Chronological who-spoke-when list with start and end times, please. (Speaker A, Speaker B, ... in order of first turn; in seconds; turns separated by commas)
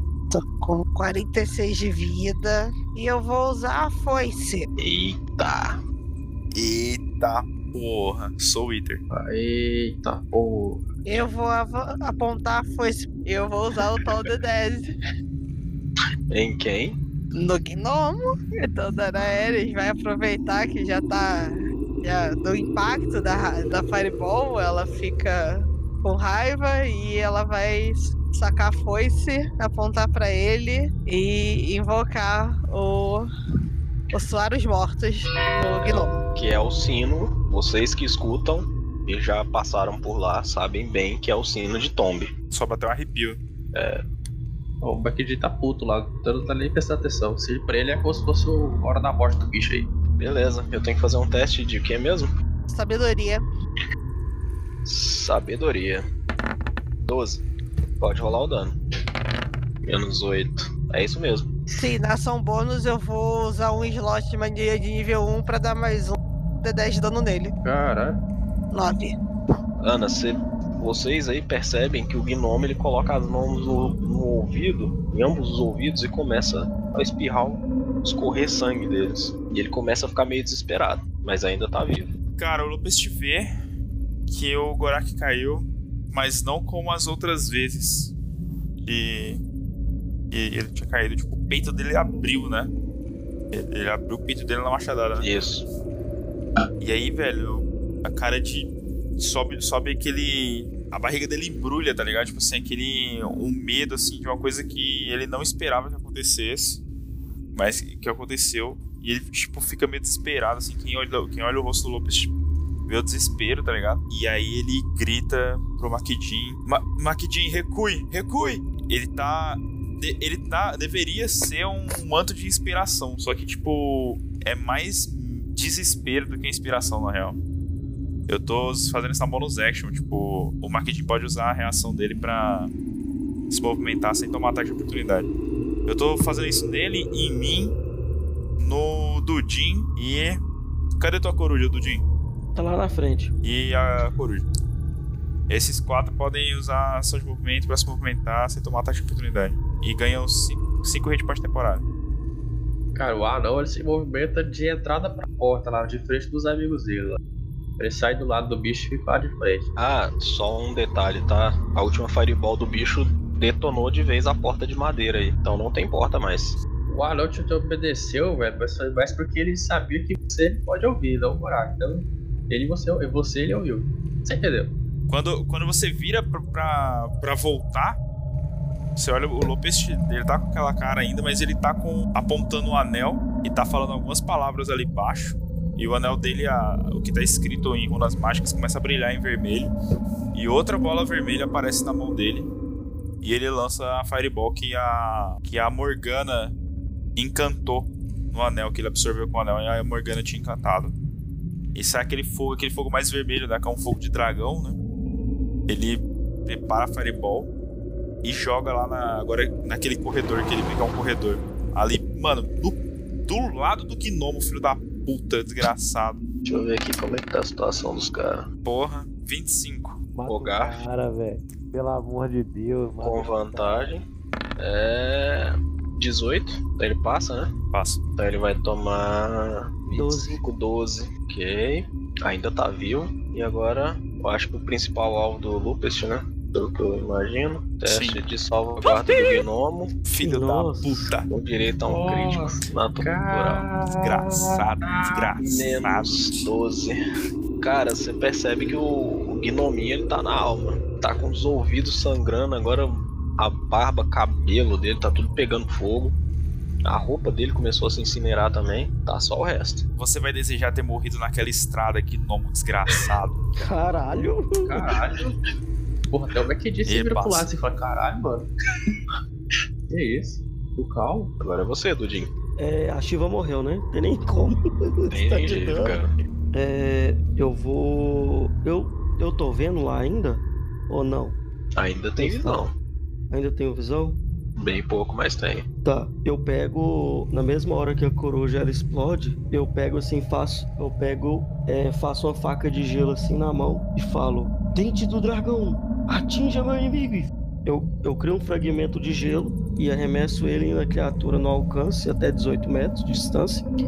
Speaker A: 0.3-4.7, Speaker B: 4.8-5.8, Speaker C: 6.5-9.0, Speaker D: 9.1-10.8, Speaker A: 11.1-14.8, Speaker B: 16.3-17.0, Speaker A: 17.3-33.2, Speaker A: 34.1-36.2, Speaker B: 35.8-42.3, Speaker C: 42.5-43.4, Speaker B: 43.7-44.0, Speaker D: 44.8-49.9, Speaker B: 50.2-52.3, Speaker A: 52.7-53.4, Speaker B: 54.9-56.1, Speaker B: 57.0-57.4, Speaker B: 58.0-58.8, Speaker B: 59.9-61.5, Speaker A: 61.8-67.5, Speaker D: 67.6-68.2, Speaker A: 68.7-69.2, Speaker B: 69.8-82.2, Speaker C: 82.4-83.5, Speaker C: 84.3-88.1, Speaker C: 88.8-89.4, Speaker C: 90.3-92.7, Speaker C: 93.5-95.3, Speaker B: 95.2-95.7, Speaker C: 96.8-106.8, Speaker C: 107.5-112.3, Speaker C: 112.9-127.4, Speaker C: 128.3-132.7, Speaker C: 133.5-135.3, Speaker C: 135.9-137.8, Speaker C: 138.6-140.4, Speaker C: 141.0-142.0, Speaker E: 142.6-143.3, Speaker C: 143.4-144.4, Speaker C: 145.5-151.8, Speaker D: 152.9-157.2, Speaker D: 157.8-159.7, Speaker B: 159.8-166.6, Speaker D: 166.9-174.7, Speaker C: 175.1-178.0, Speaker C: 179.0-189.7, Speaker C: 190.3-192.5, Speaker C: 193.2-196.6, Speaker C: 197.2-200.9, Speaker C: 201.8-204.8, Speaker C: 205.7-207.5, Speaker C: 208.2-216.2, Speaker B: 216.4-218.5, Speaker C: 218.7-220.0, Speaker F: 220.1-223.9, Speaker B: 220.3-220.8, Speaker B: 223.0-224.1, Speaker B: 224.6-227.5, Speaker C: 227.7-228.0, Speaker B: 228.2-239.9, Speaker E: 229.9-230.4, Speaker C: 237.9-238.2, Speaker C: 240.1-241.3, Speaker E: 240.2-241.1, Speaker B: 241.3-243.7, Speaker D: 241.8-245.3, Speaker C: 244.0-246.5, Speaker B: 245.4-247.0, Speaker B: 247.6-256.2, Speaker B: 256.9-259.8, Speaker C: 260.0-263.4, Speaker E: 263.6-264.9, Speaker D: 264.6-265.3, Speaker D: 266.1-268.5, Speaker C: 266.9-267.5, Speaker D: 269.9-271.3, Speaker B: 271.4-272.3, Speaker E: 272.6-276.0, Speaker B: 275.1-276.1, Speaker E: 276.5-281.4, Speaker B: 281.8-282.7, Speaker E: 282.2-282.7, Speaker E: 283.3-284.2, Speaker B: 284.6-285.7, Speaker E: 285.8-303.6